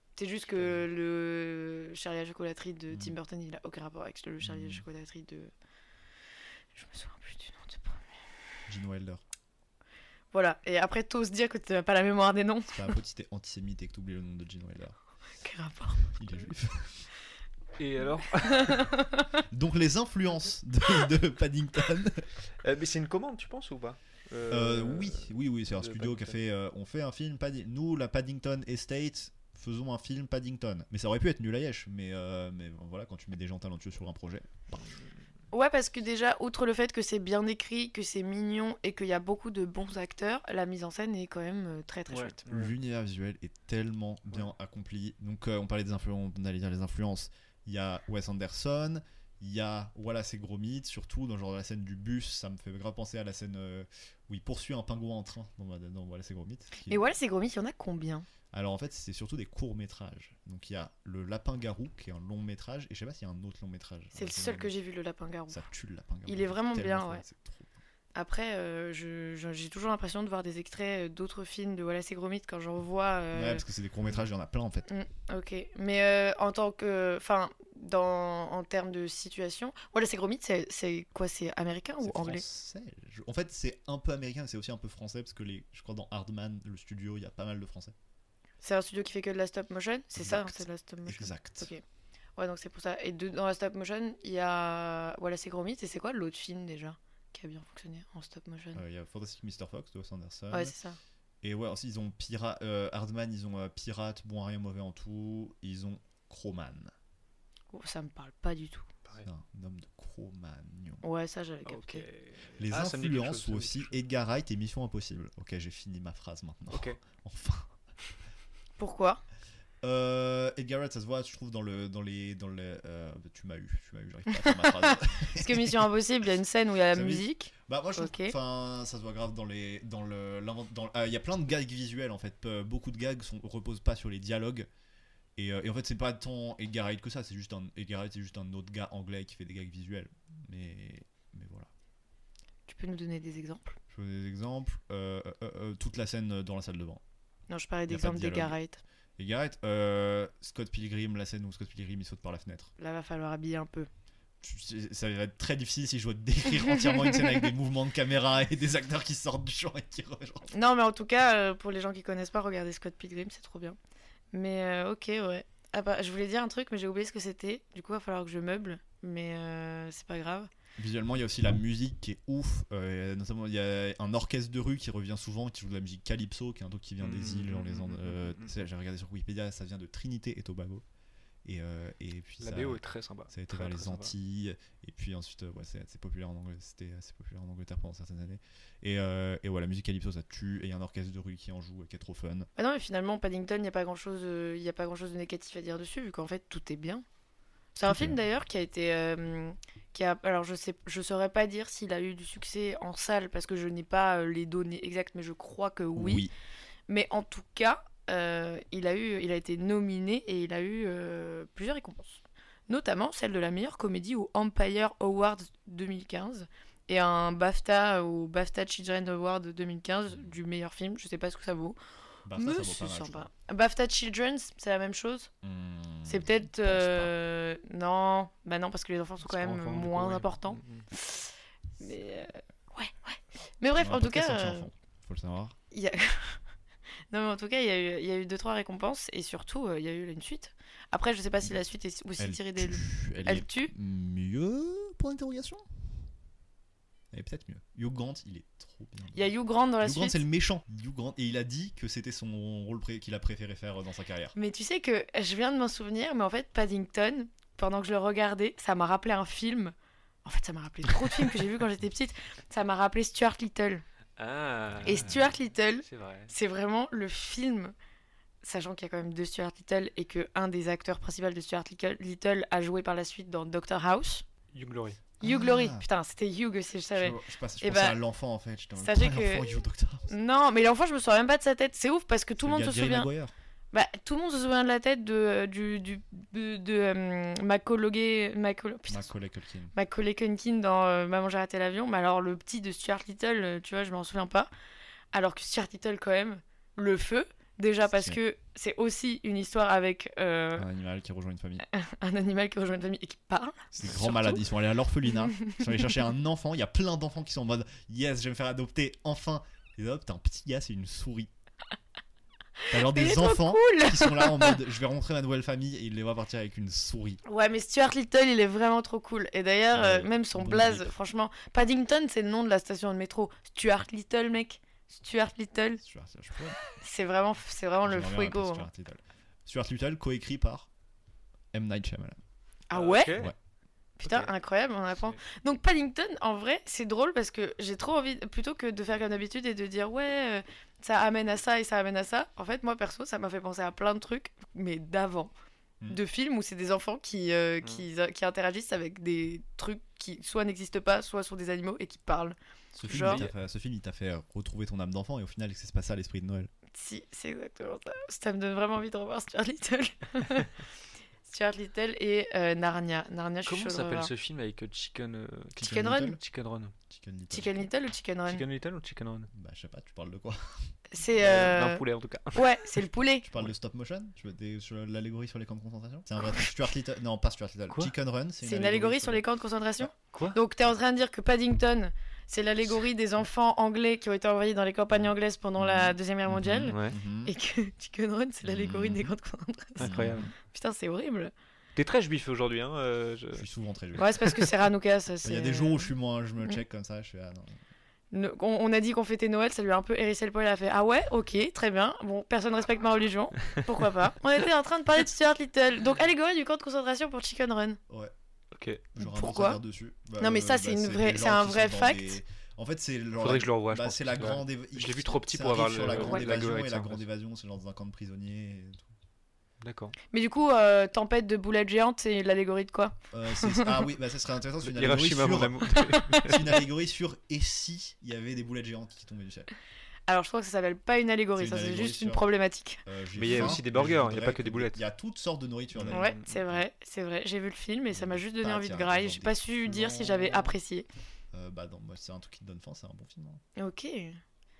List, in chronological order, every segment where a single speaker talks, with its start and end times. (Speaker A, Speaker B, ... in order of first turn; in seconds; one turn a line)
Speaker A: 0.2-5.5
Speaker B: 0.5-0.8
Speaker B: 4.4-4.8
Speaker A: 6.7-8.0
Speaker B: 8.7-9.2
Speaker A: 10.3-12.8
Speaker B: 12.7-15.0
Speaker A: 15.4-16.1
Speaker B: 16.1-17.1
Speaker C: 17.8-18.9
Speaker A: 18.4-19.2
Speaker B: 19.5-22.3
Speaker C: 22.6-26.4
Speaker B: 24.5-34.8
Speaker A: 35.5-42.4
Speaker C: 42.1-42.7
Speaker B: 42.5-57.1
Speaker A: 56.9-58.3
Speaker B: 58.5-64.7
Speaker A: 64.1-65.6
Speaker B: 65.5-67.8
Speaker A: 66.2-67.2
Speaker A: 68.1-73.6
Speaker B: 73.3-74.9
Speaker A: 74.9-82.4
Speaker B: 82.0-87.9
Speaker A: 88.6-91.8
Speaker B: 90.2-91.7
Speaker A: 92.4-98.8
Speaker B: 98.7-100.7
Speaker A: 100.5-101.0
Speaker B: 101.4-106.9
Speaker A: 107.7-108.9
Speaker B: 109.2-111.0
Speaker A: 111.0-112.0
Speaker C: 111.7-113.9
Speaker B: 112.6-117.7
Speaker C: 116.7-117.0
Speaker A: 118.8-119.2
Speaker B: 119.8-125.9
Speaker A: 124.3-128.3
Speaker B: 126.9-134.7
Speaker B: 135.3-141.7
Speaker A: 142.7-143.8
Speaker B: 143.9-147.0
Speaker A: 147.5-148.8
Speaker B: 147.9-148.6
Speaker B: 149.2-152.7
Speaker A: 152.8-153.9
Speaker B: 154.4-160.5
Speaker A: 156.7-157.2
Speaker A: 160.5-163.8
Speaker A: 164.3-170.5
Speaker B: 170.8-180.8
Speaker C: 177.0-178.5
Speaker B: 181.4-192.5
Speaker C: 182.4-184.1
Speaker A: 192.6-197.0
Speaker A: 197.8-206.3
Speaker B: 197.8-198.2
Speaker B: 205.9-206.3
Speaker A: 206.9-221.8
Speaker B: 222.2-223.3
Speaker A: 222.4-225.3
Speaker B: 225.4-227.1
Speaker A: 226.1-231.3
Speaker C: 229.2-230.8
Speaker A: 231.8-234.7
Speaker B: 233.8-235.6
Speaker A: 235.7-236.4
Speaker A: 237.1-243.7
Speaker B: 242.2-245.6
Speaker B: 247.1-254.3
Speaker A: 249.1-250.2
Speaker A: 254.3-259.7
Speaker A: 260.2-263.8
Speaker C: 264.2-266.3
Speaker B: 264.8-265.2
Speaker A: 264.8-267.7
Speaker A: 268.4-274.2
Speaker C: 274.5-275.0
Speaker B: 275.2-275.9
Speaker A: 275.2-278.0
Speaker B: 276.9-280.1
Speaker A: 278.8-279.5
Speaker A: 280.1-283.1
Speaker B: 282.4-283.3
Speaker A: 283.7-289.1
Speaker B: 288.9-289.7
Speaker A: 289.7-294.5
Speaker A: 295.1-300.7
Speaker B: 297.9-298.2
Speaker B: 300.6-301.6
Speaker A: 301.7-304.4
Speaker B: 303.7-311.3
Speaker A: 312.7-314.6
Speaker B: 312.7-317.2
Speaker A: 317.2-325.8
Speaker B: 319.7-320.9
Speaker B: 325.8-326.6
Speaker A: 326.8-328.7
Speaker B: 327.8-330.7
Speaker B: 331.5-332.2
Speaker A: 332.7-333.1
Speaker C: 332.7-333.3
Speaker A: 334.0-345.3
Speaker C: 334.0-334.3
Speaker A: 345.9-353.2
Speaker B: 352.8-356.5
Speaker C: 352.9-353.3
Speaker A: 356.7-360.5
Speaker A: 361.2-364.1
Speaker C: 363.4-366.7
Speaker B: 365.6-366.2
Speaker A: 365.6-366.1
Speaker B: 366.9-367.5
Speaker A: 367.3-368.4
Speaker C: 368.3-369.3
Speaker B: 369.3-370.4
Speaker A: 370.9-371.8
Speaker C: 371.2-372.7
Speaker A: 372.3-373.2
Speaker B: 373.2-379.2
Speaker A: 378.4-389.9
Speaker C: 380.1-380.4
Speaker B: 385.6-387.3
Speaker C: 386.7-387.0
Speaker B: 388.4-389.1
Speaker C: 389.8-390.3
Speaker B: 389.8-390.3
Speaker A: 390.5-391.3
Speaker C: 391.8-393.5
Speaker B: 393.4-394.1
Speaker A: 394.0-395.9
Speaker B: 395.2-397.6
Speaker A: 398.1-407.8
Speaker C: 408.5-408.9
Speaker B: 408.9-418.9
Speaker A: 409.0-409.6
Speaker A: 410.2-412.2
Speaker C: 413.2-417.0
Speaker A: 415.9-416.2
Speaker C: 419.6-419.9
Speaker A: 420.1-423.8
Speaker B: 423.1-429.5
Speaker C: 424.6-426.6
Speaker A: 430.1-433.6
Speaker B: 431.4-432.2
Speaker B: 432.9-436.6
Speaker C: 433.1-434.8
Speaker C: 435.7-436.3
Speaker A: 435.9-440.9
Speaker B: 437.9-440.5
Speaker B: 441.3-443.4
Speaker A: 443.6-444.2